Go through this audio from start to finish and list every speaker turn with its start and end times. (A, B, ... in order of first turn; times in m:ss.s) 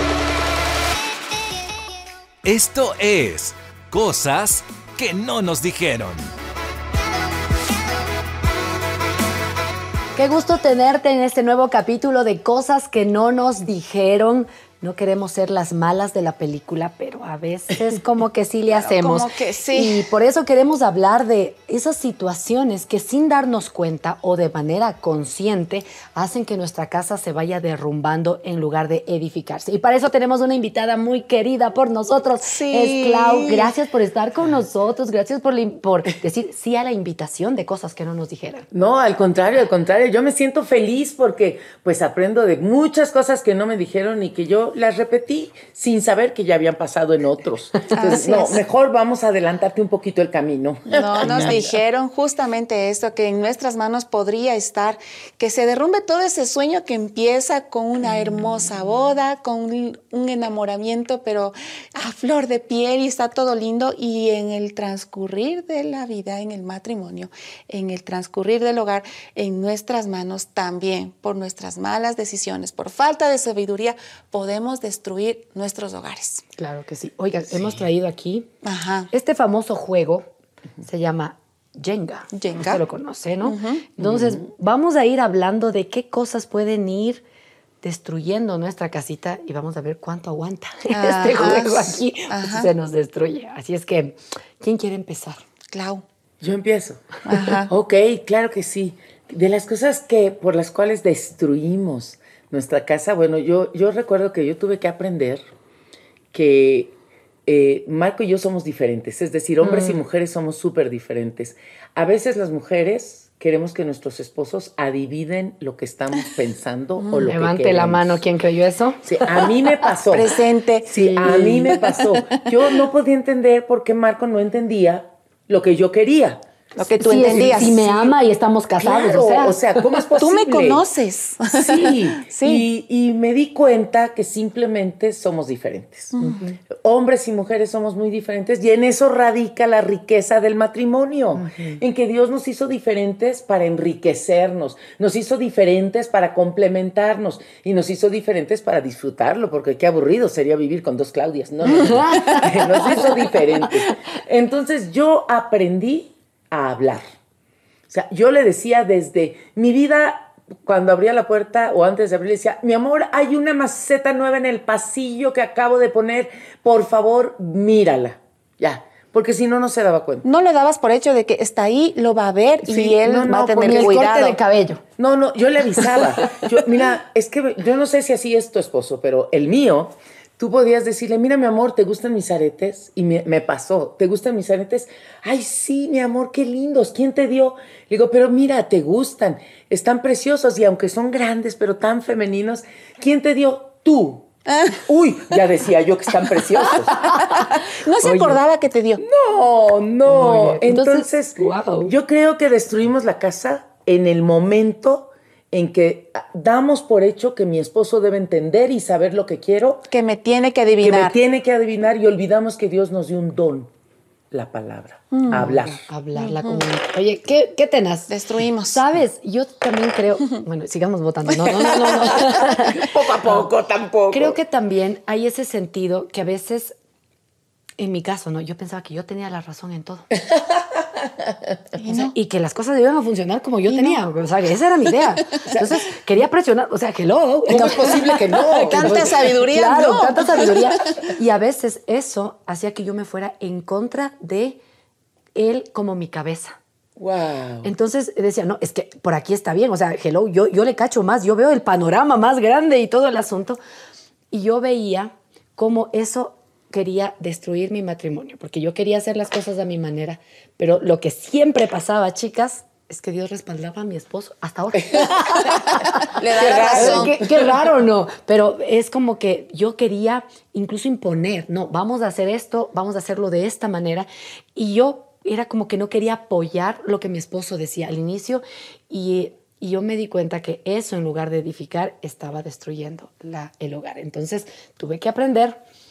0:02.4-0:06.3 A
0:10.2-0:38.7 B
0:18.7-0:20.0 C
0:32.5-0:33.7 D
0:38.7-0:51.8 D
0:47.9-0:48.6 C
0:50.9-1:16.4 C
1:16.6-1:18.5 B
1:18.6-1:19.1 C
1:19.1-1:20.3 B
1:20.8-1:27.2 B
1:22.3-1:22.8 C
1:23.4-1:23.8 C
1:24.0-1:24.5 D
1:27.8-1:35.4 B
1:30.9-1:32.7 C
1:35.7-1:36.0 C
1:36.4-1:45.4 D
1:37.2-1:37.7 C
1:46.3-1:46.9 D
1:47.5-1:58.2 D
1:49.6-1:50.0 B
1:57.0-1:57.3 C
1:57.3-1:59.9 B
1:59.0-2:00.3 D
2:00.1-2:02.4 C
2:00.9-2:06.4 D
2:00.9-2:01.8 B
2:06.8-2:07.8 C
2:06.9-2:09.6 B
2:07.1-2:08.2 D
2:08.8-2:10.8 D
2:10.2-2:12.7 C
2:11.4-2:16.2 D
2:16.2-2:16.6 B
2:16.7-2:37.1 D
2:21.4-2:21.8 B
2:31.6-2:34.0 B
2:32.2-2:32.7 C
2:37.9-2:50.2 D
2:50.2-2:54.4 C
2:52.7-2:54.0 D
2:52.7-2:54.8 B
2:55.0-3:17.0 D
2:55.8-2:56.5 B
3:14.5-3:14.8 C
3:16.7-3:19.0 C
3:19.0-3:29.9 D
3:20.1-3:21.9 B
3:29.9-3:31.2 C
3:30.8-3:33.7 D
3:34.3-3:35.8 D
3:35.1-3:35.6 C
3:35.3-3:43.5 B
3:36.2-3:36.6 C
3:38.1-3:38.8 C
3:41.5-3:42.5 C
3:41.6-3:44.4 D
3:44.1-3:46.8 B
3:47.8-3:50.1 B
3:50.3-3:51.5 D
3:51.8-3:52.1 C
3:51.9-4:04.6 B
3:53.7-3:54.0 C
3:57.5-3:59.3 D
3:58.7-4:01.0 C
4:05.4-4:06.6 B
4:07.0-4:07.7 D
4:07.6-4:13.6 B
4:14.3-4:45.6 B
4:24.8-4:25.8 D
4:26.0-4:27.2 C
4:26.4-4:27.5 D